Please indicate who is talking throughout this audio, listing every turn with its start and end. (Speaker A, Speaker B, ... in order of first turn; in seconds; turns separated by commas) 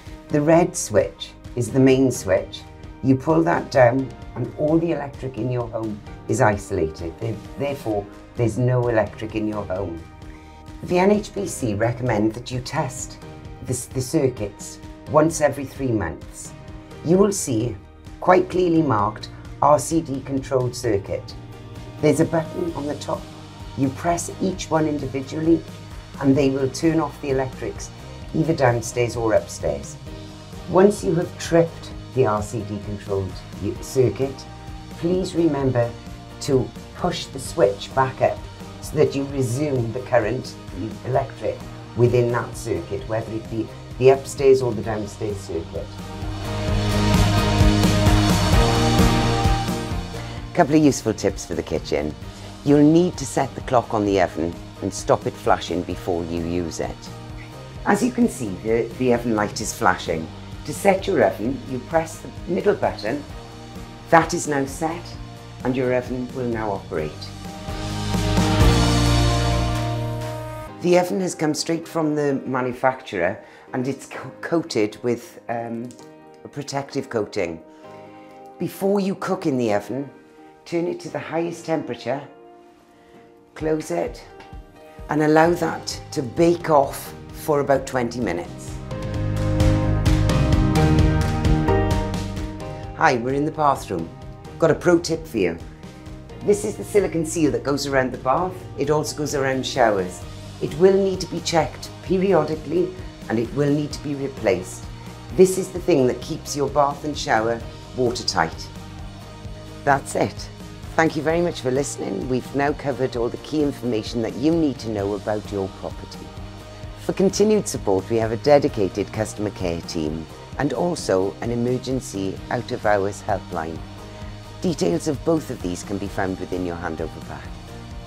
Speaker A: 0.3-10.1, Speaker A: 10.8-21.4, Speaker A: 22.0-25.6, Speaker A: 26.2-30.0, Speaker A: 30.6-46.0, Speaker A: 50.5-57.1, Speaker A: 57.8-63.2, Speaker A: 64.1-67.3, Speaker A: 70.8-77.6, Speaker A: 78.6-82.3, Speaker A: 83.5-84.3, Speaker A: 85.1-88.8, Speaker A: 92.9-95.6, Speaker A: 96.4-108.7, Speaker A: 109.8-116.3, Speaker A: 117.0-123.8, Speaker A: 124.6-127.5